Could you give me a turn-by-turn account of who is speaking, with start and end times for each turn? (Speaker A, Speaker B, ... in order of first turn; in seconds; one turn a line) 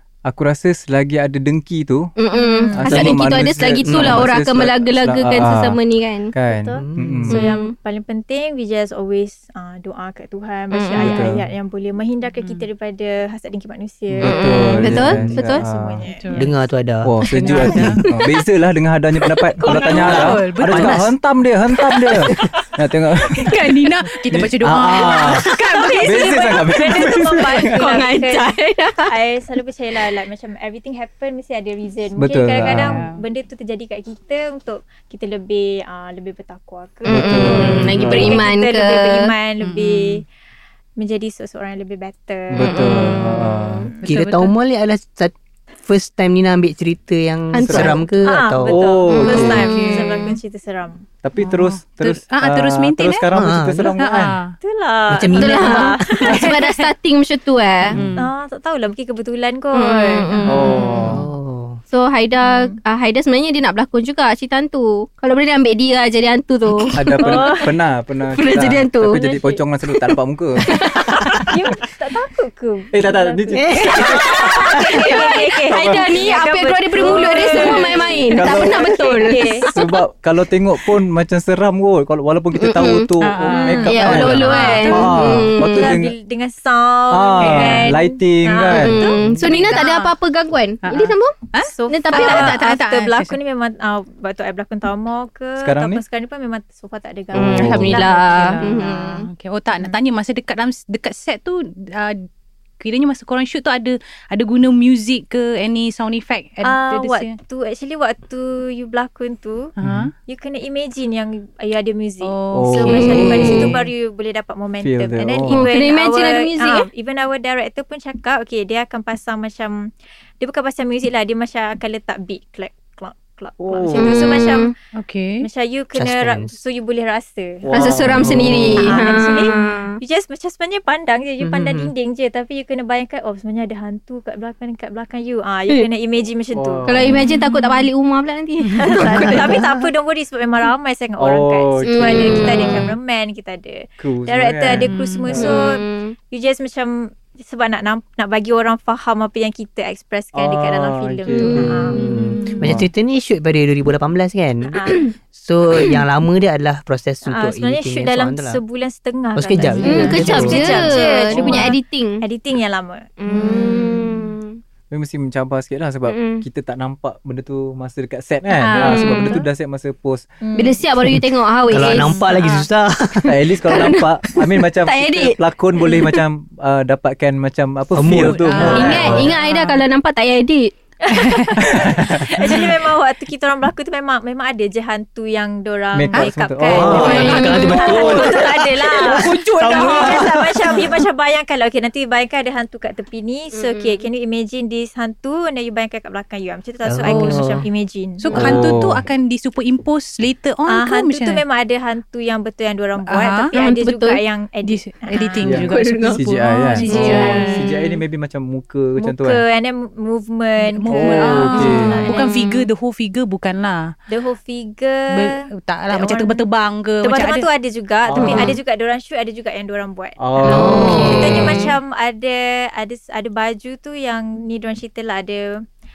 Speaker A: 0.3-2.1
Speaker B: 2.2-6.3
Speaker C: 2.3-3.1
Speaker A: 2.8-5.8
Speaker D: 3.9-4.3
Speaker A: 6.3-7.4
Speaker C: 6.5-16.4
Speaker D: 6.8-7.3
Speaker B: 7.3-7.7
Speaker B: 10.7-11.2
Speaker A: 11.0-11.5
Speaker E: 12.4-12.7
Speaker A: 14.2-16.0
Speaker B: 14.2-15.6
Speaker D: 14.9-15.4
Speaker E: 16.1-16.5
Speaker D: 16.3-17.9
Speaker A: 17.0-25.5
Speaker E: 17.3-18.1
Speaker E: 19.6-21.1
Speaker D: 19.8-21.1
Speaker E: 23.4-26.6
Speaker C: 24.9-28.4
Speaker A: 26.0-27.9
Speaker B: 27.6-29.1
Speaker C: 29.1-40.2
Speaker A: 32.2-33.0
Speaker E: 32.8-33.2
Speaker A: 37.1-38.4
Speaker B: 37.1-39.3
Speaker D: 37.5-38.0
Speaker E: 39.6-40.2
Speaker C: 41.0-44.2
Speaker A: 42.5-43.9
Speaker B: 42.6-43.8
Speaker E: 44.0-44.5
Speaker D: 44.1-45.3
Speaker D: 45.9-48.8
Speaker B: 47.5-48.3
Speaker A: 47.6-48.1
Speaker C: 48.2-51.0
Speaker A: 48.6-49.7
Speaker B: 49.1-50.3
Speaker E: 49.4-50.4
Speaker A: 51.2-54.4
Speaker E: 51.4-53.3
Speaker D: 53.3-54.0
Speaker E: 54.0-54.6
Speaker C: 54.6-56.6
Speaker D: 55.1-56.0
Speaker B: 55.3-58.0
Speaker E: 56.3-56.9
Speaker E: 57.9-58.3
Speaker D: 58.0-58.2
Speaker C: 58.1-60.9
Speaker B: 59.7-60.9
Speaker E: 60.4-60.8
Speaker A: 60.5-61.3
Speaker D: 61.0-61.8
Speaker B: 61.9-67.7
Speaker C: 62.4-62.8
Speaker A: 66.9-71.5
Speaker C: 67.2-67.7
Speaker B: 68.3-69.2
Speaker C: 69.1-69.6
Speaker B: 69.9-70.2
Speaker B: 70.7-71.4
Speaker C: 71.4-79.7
Speaker A: 72.9-75.1
Speaker D: 73.5-74.2
Speaker B: 74.0-80.0
Speaker A: 75.7-76.2
Speaker A: 77.1-79.0
Speaker A: 79.7-86.2
Speaker B: 82.5-83.1
Speaker E: 83.2-84.0
Speaker C: 83.5-90.0
Speaker B: 83.8-86.0
Speaker E: 84.6-85.2
Speaker A: 87.1-89.0
Speaker E: 87.5-87.7
Speaker B: 88.7-91.4
Speaker E: 89.2-90.1
Speaker E: 90.8-93.4
Speaker C: 91.6-98.7
Speaker B: 91.9-92.5
Speaker A: 95.6-96.0
Speaker D: 97.3-97.9
Speaker A: 97.4-97.9
Speaker B: 97.4-99.3
Speaker E: 97.8-102.3
Speaker E: 102.8-107.3
Speaker C: 106.6-109.7
Speaker E: 109.8-110.1
Speaker A: 109.8-110.1
Speaker C: 110.3-124.7
Speaker E: 112.2-113.6
Speaker A: 112.5-113.8
Speaker D: 113.4-113.8
Speaker A: 114.8-115.7
Speaker B: 115.5-116.9
Speaker A: 123.6-124.3
Speaker B: 124.0-124.7
Speaker E: 125.0-125.5
Speaker C: 125.4-128.0
Speaker D: 126.0-126.6
Speaker A: 127.6-129.1
Speaker B: 127.7-130.0
Speaker C: 128.8-137.1
Speaker D: 131.4-131.9
Speaker A: 136.5-137.2
Speaker B: 136.8-139.4
Speaker E: 137.3-137.8
Speaker E: 138.6-139.0
Speaker C: 138.8-152.0
Speaker D: 139.0-139.6
Speaker A: 141.2-142.8
Speaker B: 141.9-142.8
Speaker A: 144.0-145.5
Speaker E: 144.8-145.4
Speaker B: 145.4-146.1
Speaker A: 150.3-152.0
Speaker B: 151.3-152.3
Speaker D: 151.7-158.6
Speaker E: 152.3-152.7
Speaker A: 152.6-152.9
Speaker C: 154.7-155.1
Speaker C: 157.3-163.6
Speaker D: 159.4-160.8
Speaker B: 159.8-162.2
Speaker A: 160.4-161.7
Speaker B: 163.2-164.6
Speaker E: 163.4-164.1
Speaker A: 164.9-170.3
Speaker B: 166.1-166.4
Speaker C: 168.6-169.4
Speaker B: 168.8-169.4
Speaker C: 170.4-170.9
Speaker B: 170.6-172.7
Speaker D: 171.0-173.9
Speaker A: 173.2-179.3
Speaker B: 173.7-174.1
Speaker B: 174.8-176.2
Speaker D: 177.9-179.3
Speaker E: 178.3-179.8
Speaker B: 178.7-180.7
Speaker C: 178.8-179.2
Speaker C: 181.0-198.6
Speaker E: 181.1-181.6
Speaker A: 181.6-182.8
Speaker A: 185.9-188.3
Speaker D: 186.7-189.4
Speaker B: 186.9-188.1
Speaker E: 186.9-190.3
Speaker A: 189.5-191.0
Speaker B: 193.5-194.0
Speaker D: 196.9-197.7
Speaker E: 197.1-197.4
Speaker E: 198.2-201.4
Speaker A: 198.3-199.1
Speaker C: 200.7-205.8
Speaker E: 203.1-203.6
Speaker B: 203.5-204.2
Speaker E: 204.7-208.0
Speaker A: 205.4-209.4
Speaker B: 205.6-206.2
Speaker B: 206.8-207.5
Speaker C: 206.8-207.5
Speaker C: 209.0-212.5
Speaker E: 210.6-213.9
Speaker A: 210.9-212.1
Speaker B: 212.1-212.7
Speaker C: 214.1-216.5
Speaker E: 215.1-217.5
Speaker C: 217.0-225.7
Speaker A: 218.1-218.5
Speaker D: 218.2-218.5
Speaker A: 220.2-221.5
Speaker D: 220.4-221.6
Speaker B: 221.2-221.7